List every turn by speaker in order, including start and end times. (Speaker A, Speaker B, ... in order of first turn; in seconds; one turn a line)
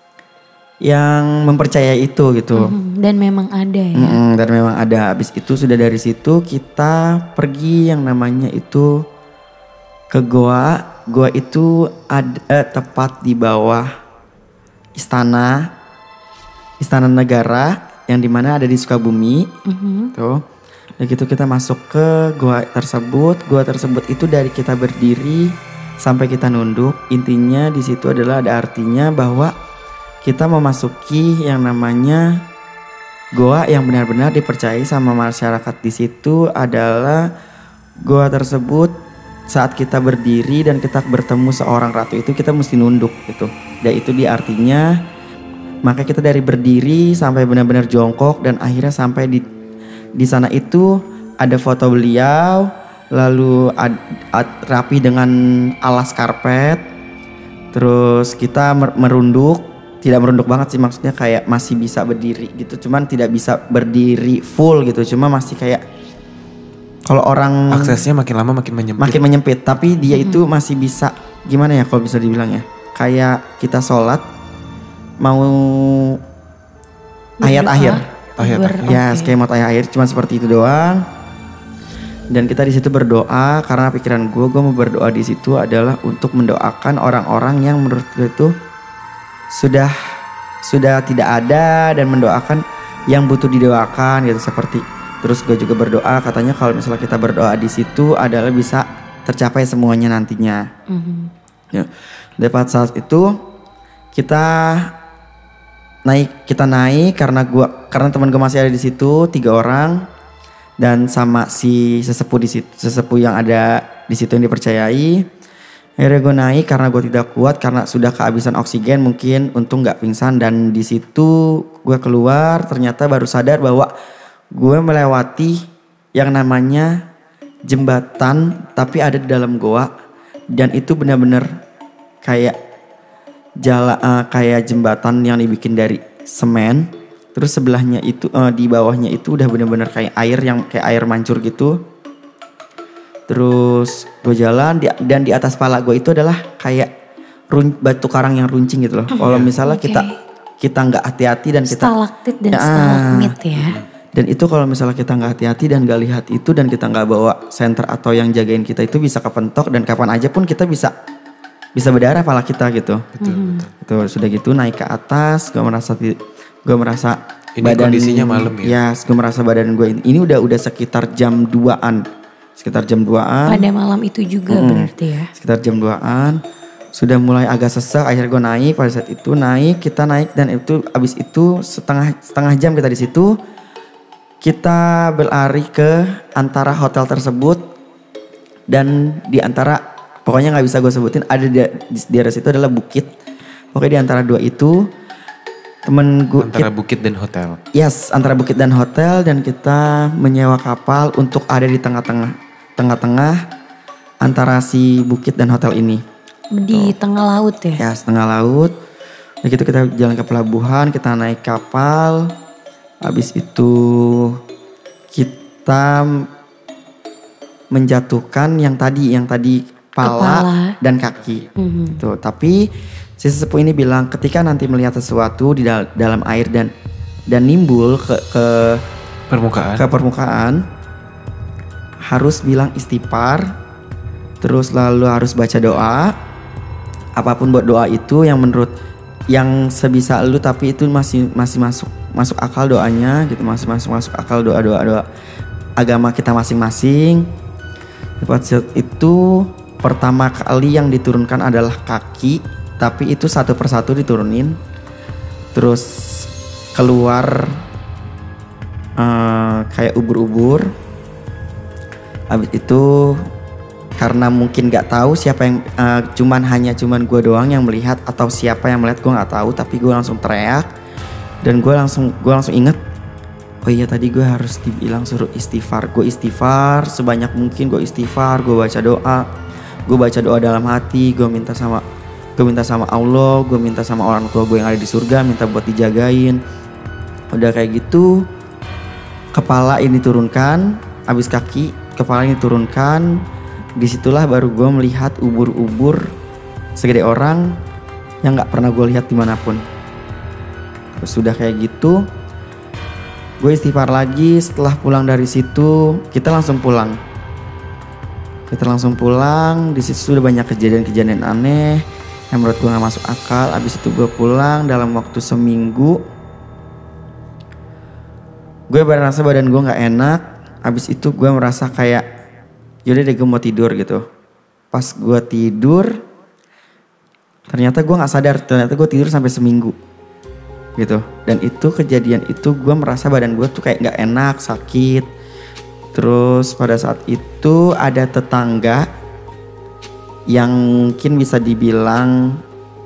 Speaker A: 0.8-2.7
Speaker B: 2.5-4.2
Speaker A: 3.9-9.1
Speaker A: 10.1-13.9
Speaker A: 15.0-15.7
Speaker A: 16.8-19.5
Speaker B: 19.6-20.1
Speaker A: 20.1-20.4
Speaker A: 21.0-29.5
Speaker A: 30.2-32.4
Speaker A: 33.3-37.3
Speaker A: 38.0-38.9
Speaker A: 39.5-44.9
Speaker A: 45.8-49.4
Speaker A: 50.2-56.8
Speaker A: 57.7-65.8
Speaker A: 67.1-68.0
Speaker C: 67.7-69.2
Speaker A: 69.0-74.2
Speaker B: 70.1-70.4
Speaker A: 75.2-76.2
Speaker B: 77.4-79.3
Speaker A: 77.4-78.0
Speaker C: 78.4-79.0
Speaker A: 78.8-81.0
Speaker A: 82.3-88.5
Speaker A: 89.5-89.9
Speaker A: 90.6-100.7
Speaker B: 100.9-101.3
Speaker A: 101.7-103.3
Speaker A: 104.1-104.9
Speaker A: 106.0-110.1
Speaker A: 110.8-115.2
Speaker A: 116.0-123.9
Speaker A: 124.5-125.6
Speaker A: 126.2-127.0
Speaker A: 127.7-129.9
Speaker A: 130.5-131.5
Speaker A: 132.2-132.6
Speaker A: 133.6-141.8
Speaker A: 143.3-146.9
Speaker A: 147.5-150.1
Speaker B: 149.1-150.2
Speaker C: 149.2-149.5
Speaker A: 150.6-151.9
Speaker B: 151.7-153.8
Speaker A: 152.5-153.3
Speaker C: 153.6-153.9
Speaker A: 154.1-160.9
Speaker A: 161.8-163.1
Speaker C: 163.1-163.7
Speaker B: 163.2-163.7
Speaker A: 163.8-172.1
Speaker C: 167.6-168.8
Speaker A: 172.6-173.7
Speaker B: 173.4-175.3
Speaker A: 174.5-176.4
Speaker A: 176.9-183.3
Speaker A: 184.4-187.7
Speaker A: 188.7-193.1
Speaker A: 193.7-194.9
Speaker A: 195.8-196.7
Speaker C: 196.4-197.6
Speaker A: 197.7-203.4
Speaker A: 204.2-206.0
Speaker B: 206.5-207.8
Speaker A: 206.7-206.9
Speaker A: 207.8-208.7
Speaker A: 209.4-212.3
Speaker A: 213.0-214.4
Speaker A: 215.1-216.3
Speaker A: 217.7-222.7
Speaker B: 220.0-220.8
Speaker B: 221.6-222.0
Speaker A: 223.2-226.7
Speaker A: 227.3-228.8
Speaker C: 229.3-229.8
Speaker A: 229.8-230.6
Speaker A: 232.1-233.5
Speaker A: 234.4-236.1
Speaker A: 237.2-238.7
Speaker A: 239.3-245.0
Speaker A: 245.8-247.3
Speaker A: 248.2-254.6
Speaker A: 255.5-257.6
Speaker A: 259.0-260.7
Speaker A: 262.3-263.2
Speaker A: 264.0-270.7
Speaker A: 271.4-272.8
Speaker A: 273.6-279.3
Speaker A: 279.9-281.8
Speaker A: 282.4-286.4
Speaker A: 287.3-288.2
Speaker A: 289.3-293.2
Speaker A: 293.8-296.1
Speaker A: 296.8-297.6
Speaker A: 298.2-299.6
Speaker A: 300.9-302.0
Speaker A: 303.4-307.0
Speaker A: 308.5-316.0
Speaker A: 318.7-322.0
Speaker A: 322.9-324.0
Speaker A: 324.7-326.0
Speaker A: 327.5-329.8
Speaker A: 330.8-335.1
Speaker A: 335.9-338.9
Speaker A: 340.3-342.4